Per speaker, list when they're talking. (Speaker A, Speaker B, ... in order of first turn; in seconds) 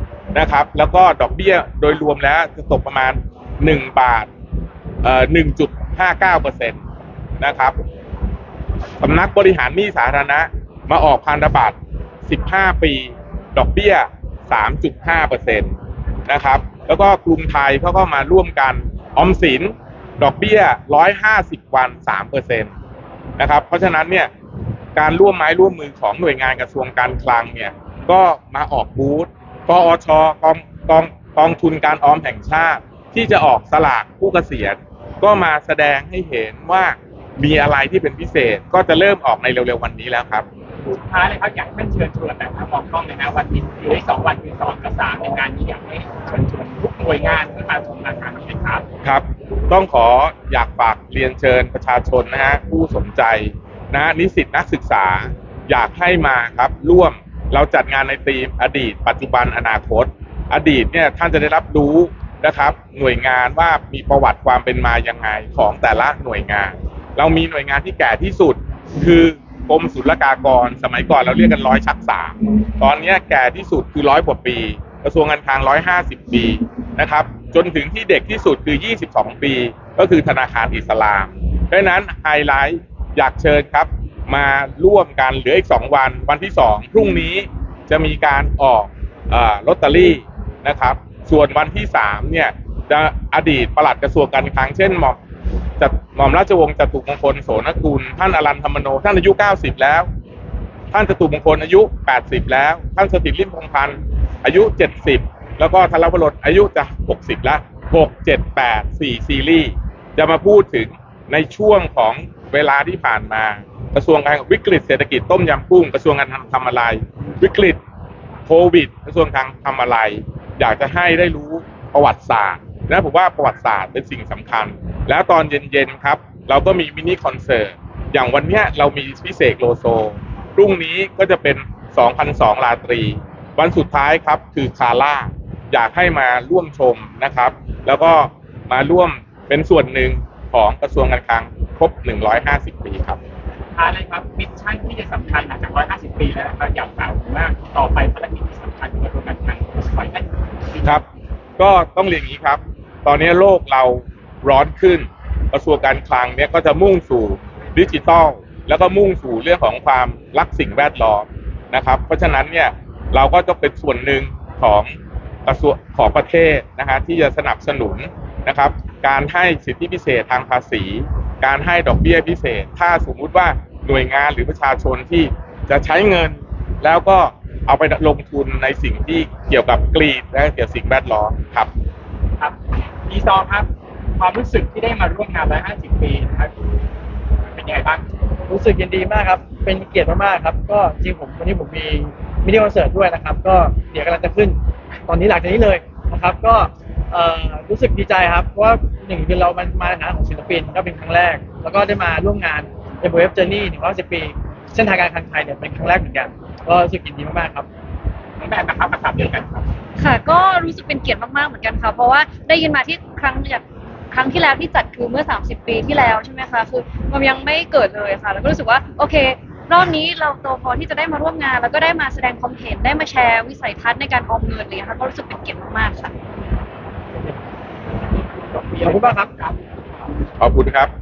Speaker A: 0.3-4.3, 5.0-6.8, 7.4-7.7, 9.0-11.7, 12.2-15.7, 16.3-22.7, 23.4-24.3, 24.9-40.5, 49.0-95.2, 95.8-100.1, 100.9-117.8, 118.5-143.2, 151.6-164.9, 165.4-181.7, 230.4-230.9
Speaker B: 40.9-48.8, 143.7-150.9, 182.4-186.5, 187.5-188.0, 208.4-209.7, 228.0-230.0
Speaker C: 188.5-207.7, 228.8-229.3
Speaker D: 210.0-226.1